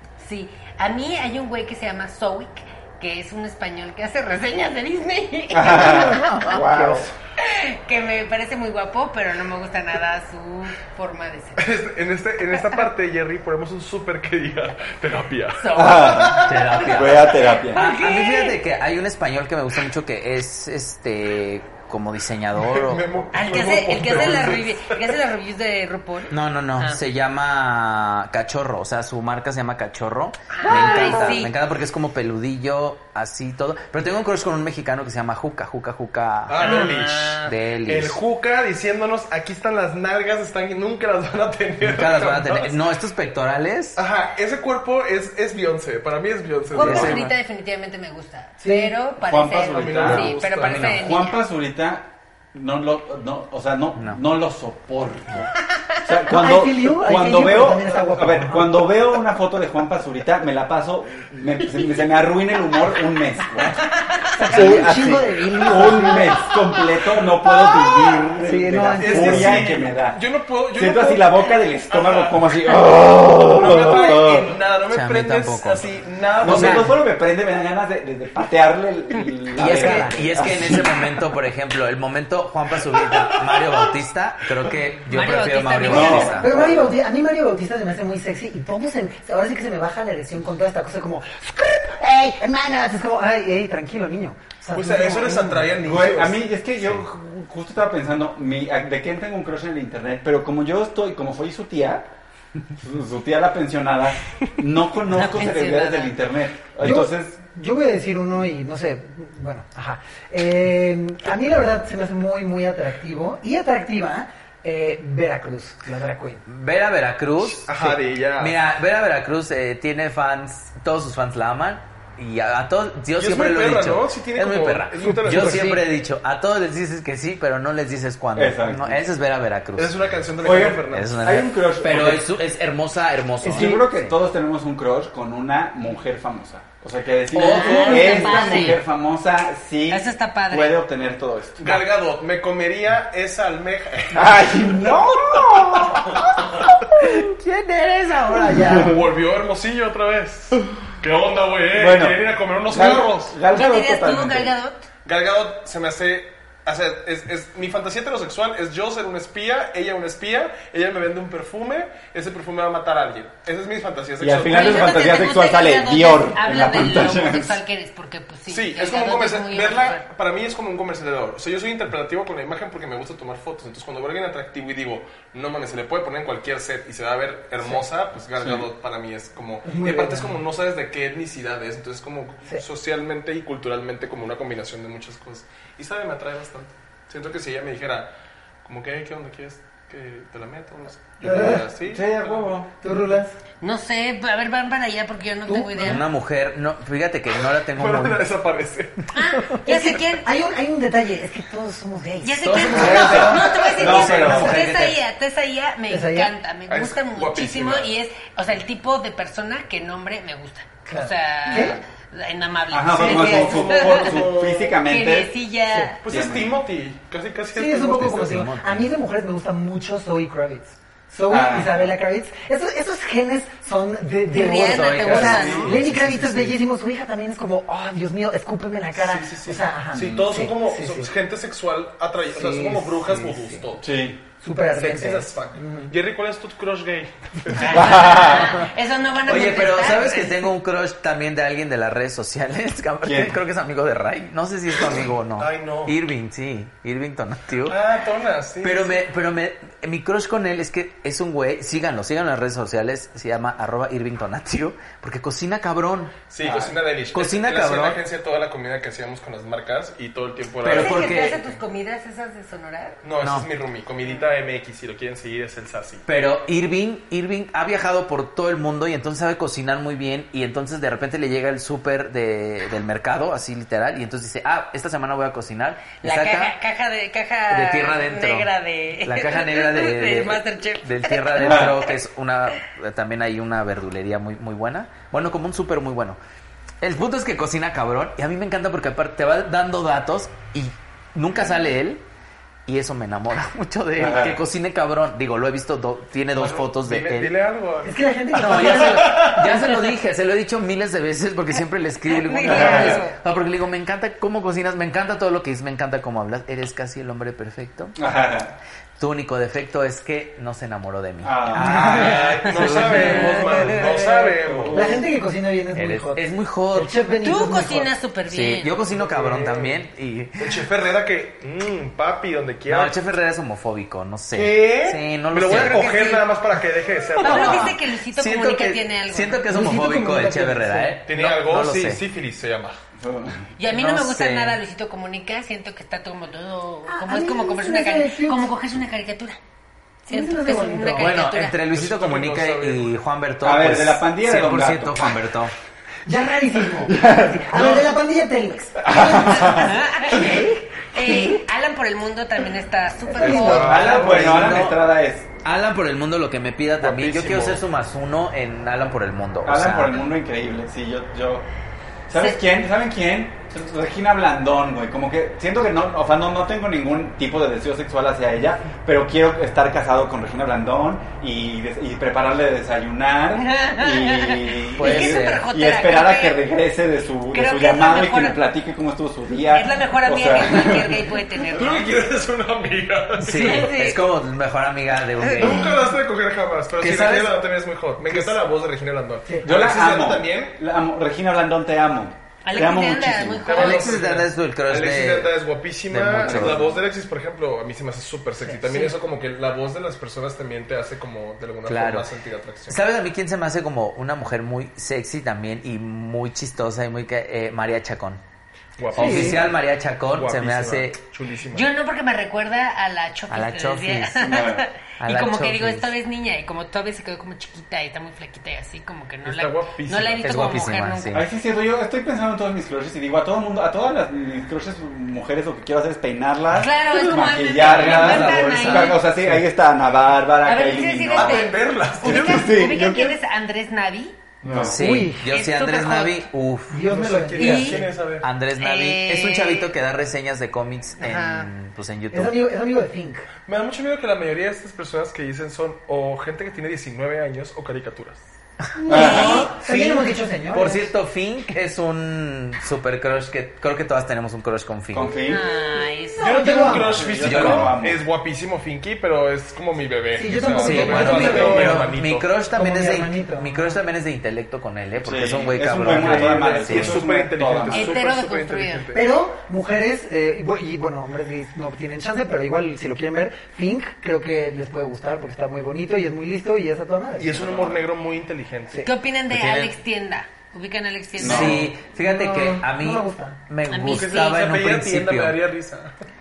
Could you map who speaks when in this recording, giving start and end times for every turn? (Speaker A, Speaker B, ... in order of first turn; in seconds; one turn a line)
Speaker A: 0.2-6.5
Speaker B: 5.5-7.1
Speaker C: 6.1-6.6
Speaker D: 6.7-7.0
Speaker A: 7.4-11.7
Speaker E: 11.6-16.9
Speaker A: 15.6-16.4
Speaker B: 15.7-17.8
Speaker C: 16.4-23.3
Speaker A: 17.1-18.6
Speaker E: 22.5-24.9
Speaker A: 23.3-27.0
Speaker C: 26.3-36.9
Speaker A: 30.5-31.5
Speaker E: 36.5-42.8
Speaker A: 36.6-37.5
Speaker C: 37.4-38.2
Speaker C: 41.8-44.0
Speaker E: 44.0-47.2
Speaker A: 46.7-51.4
Speaker C: 46.8-47.3
Speaker B: 46.9-47.2
Speaker D: 48.6-48.9
Speaker B: 49.2-63.9
Speaker E: 49.7-50.9
Speaker C: 50.6-51.0
Speaker D: 56.3-59.0
Speaker D: 64.3-66.5
Speaker B: 64.5-74.6
Speaker A: 66.5-68.2
Speaker D: 68.4-69.7
Speaker E: 68.9-77.0
Speaker C: 74.9-75.9
Speaker B: 76.4-80.9
Speaker C: 76.4-76.9
Speaker D: 79.5-80.9
Speaker C: 79.5-86.5
Speaker A: 85.1-86.5
Speaker D: 85.8-95.9
Speaker B: 85.9-86.9
Speaker E: 94.7-96.5
Speaker B: 95.8-102.1
Speaker B: 102.7-107.4
Speaker A: 105.0-106.2
Speaker D: 106.8-116.4
Speaker C: 116.5-129.9
Speaker E: 117.4-118.6
Speaker E: 123.2-125.8
Speaker D: 125.0-125.8
Speaker B: 128.3-129.0
Speaker E: 129.8-131.3
Speaker B: 130.4-132.3
Speaker C: 130.9-134.1
Speaker D: 133.4-134.0
Speaker B: 133.4-141.8
Speaker C: 137.3-138.8
Speaker A: 137.3-138.8
Speaker A: 139.9-140.8
Speaker E: 141.6-146.4
Speaker B: 144.1-146.7
Speaker C: 147.0-148.9
Speaker D: 148.3-148.9
Speaker B: 148.6-148.8
Speaker E: 148.8-153.4
Speaker B: 151.7-154.5
Speaker A: 153.5-154.9
Speaker E: 155.0-165.1
Speaker B: 164.2-167.6
Speaker A: 164.5-170.0
Speaker E: 168.5-188.1
Speaker B: 178.4-178.7
Speaker D: 179.7-180.4
Speaker E: 188.6-192.5
Speaker D: 191.2-191.7
Speaker B: 191.8-192.7
Speaker D: 192.8-193.4
Speaker A: 193.6-196.0
Speaker D: 195.4-196.0
Speaker C: 195.8-198.3
Speaker E: 197.5-199.1
Speaker A: 199.1-200.3
Speaker D: 199.6-204.6
Speaker A: 202.2-214.3
Speaker C: 202.4-205.0
Speaker B: 202.7-204.6
Speaker D: 205.9-206.3
Speaker E: 206.7-207.9
Speaker D: 210.9-211.8
Speaker B: 211.5-211.8
Speaker B: 212.7-215.3
Speaker E: 212.9-214.8
Speaker A: 214.8-216.0
Speaker E: 216.0-218.4
Speaker B: 216.1-216.6
Speaker D: 217.5-231.1
Speaker C: 217.8-218.9
Speaker B: 221.3-221.9
Speaker A: 224.3-225.8
Speaker C: 224.6-225.9
Speaker B: 225.2-225.9
Speaker E: 225.8-226.5
Speaker E: 228.9-233.9
Speaker D: 232.3-233.6
Speaker B: 233.8-234.2
Speaker D: 234.4-235.9
Speaker E: 234.7-238.1
Speaker A: 237.6-240.5
Speaker B: 237.7-238.7
Speaker C: 239.2-247.8
Speaker B: 243.0-243.4
Speaker E: 245.4-245.9
Speaker E: 247.6-249.0
Speaker C: 248.6-256.1
Speaker E: 256.3-261.4
Speaker B: 256.4-256.7
Speaker C: 257.1-258.0
Speaker C: 260.6-261.4
Speaker A: 260.7-263.0
Speaker E: 263.0-266.1
Speaker C: 263.2-263.5
Speaker C: 266.1-276.5
Speaker A: 276.0-281.7
Speaker C: 277.5-278.5
Speaker C: 279.0-286.2
Speaker B: 281.4-281.8
Speaker C: 286.8-292.0
Speaker C: 292.6-297.3
Speaker B: 294.0-294.4
Speaker E: 296.4-299.7
Speaker D: 297.8-299.4
Speaker C: 298.4-308.0
Speaker A: 302.1-303.1
Speaker B: 302.5-303.0
Speaker B: 308.0-308.5
Speaker C: 309.0-313.8
Speaker B: 311.2-311.9
Speaker D: 311.6-312.2
Speaker E: 311.7-315.0
Speaker A: 313.1-313.7
Speaker D: 313.3-317.9
Speaker B: 314.4-315.0
Speaker C: 315.7-316.9
Speaker A: 317.2-318.8
Speaker C: 318.3-320.6
Speaker E: 318.9-319.8
Speaker E: 320.4-322.9
Speaker C: 322.7-325.9
Speaker E: 324.3-327.8
Speaker A: 325.4-326.2
Speaker C: 327.2-332.0
Speaker A: 327.2-329.4
Speaker D: 329.5-330.9
Speaker E: 331.1-332.8
Speaker B: 333.0-333.4
Speaker A: 333.6-339.4
Speaker C: 333.7-334.6
Speaker D: 336.9-338.5
Speaker D: 340.1-341.2
Speaker A: 340.1-341.6
Speaker C: 340.9-345.5
Speaker E: 341.6-342.9
Speaker B: 343.4-345.2
Speaker D: 346.1-351.4
Speaker B: 346.9-347.8
Speaker B: 348.8-349.8
Speaker A: 348.9-354.0
Speaker D: 353.1-353.9
Speaker B: 353.2-355.3
Speaker E: 353.4-354.7
Speaker C: 353.6-360.0
Speaker E: 356.8-357.6
Speaker B: 359.4-361.4
Speaker B: 362.1-381.0
Speaker A: 373.3-376.4
Speaker C: 374.8-375.4
Speaker A: 377.3-378.4
Speaker A: 379.5-382.0
Speaker E: 381.5-383.7
Speaker C: 383.2-385.6
Speaker A: 383.3-384.1
Speaker E: 385.4-390.6
Speaker A: 385.4-385.7
Speaker C: 386.8-387.4
Speaker D: 389.2-389.5
Speaker B: 389.4-393.6
Speaker A: 392.4-394.0
Speaker E: 393.4-402.8
Speaker C: 393.5-395.4
Speaker C: 395.9-396.6
Speaker B: 396.2-396.8
Speaker D: 398.4-398.9
Speaker C: 401.6-402.1
Speaker C: 402.7-408.2
Speaker E: 408.8-411.7
Speaker C: 408.9-411.0
Speaker D: 408.9-409.4
Speaker A: 411.5-421.2
Speaker C: 413.3-414.3
Speaker B: 414.2-414.6
Speaker C: 415.0-415.9
Speaker E: 419.2-420.2
Speaker C: 420.2-421.2
Speaker B: 421.1-433.1
Speaker A: 426.5-429.1
Speaker C: 427.6-429.0
Speaker A: 430.4-434.2
Speaker E: 431.1-432.7
Speaker E: 434.4-434.8
Speaker B: 434.4-434.8
Speaker C: 434.6-436.8
Speaker D: 434.8-435.3
Speaker A: 435.2-436.2
Speaker D: 436.7-437.9
Speaker E: 436.9-438.3
Speaker A: 437.4-437.9
Speaker C: 438.2-442.4
Speaker A: 438.6-439.7
Speaker A: 441.0-441.5
Speaker D: 442.1-443.2
Speaker E: 443.4-448.2
Speaker D: 448.8-450.9
Speaker A: 448.9-449.5
Speaker B: 448.9-449.5
Speaker C: 448.9-455.1
Speaker B: 454.9-455.4
Speaker A: 455.3-456.6
Speaker E: 456.2-462.3
Speaker D: 456.2-457.1
Speaker B: 456.6-458.0
Speaker C: 457.2-457.7
Speaker D: 460.1-461.9
Speaker C: 460.6-467.0
Speaker B: 460.8-461.7
Speaker D: 462.5-463.8
Speaker B: 465.0-468.1
Speaker E: 465.8-469.0
Speaker A: 467.7-468.9
Speaker D: 468.9-477.6
Speaker E: 477.2-478.9
Speaker B: 477.5-477.7
Speaker A: 478.8-481.6
Speaker C: 479.3-479.7
Speaker C: 481.2-485.4
Speaker B: 481.2-481.7
Speaker D: 482.0-483.4
Speaker A: 483.7-484.4
Speaker E: 483.9-485.9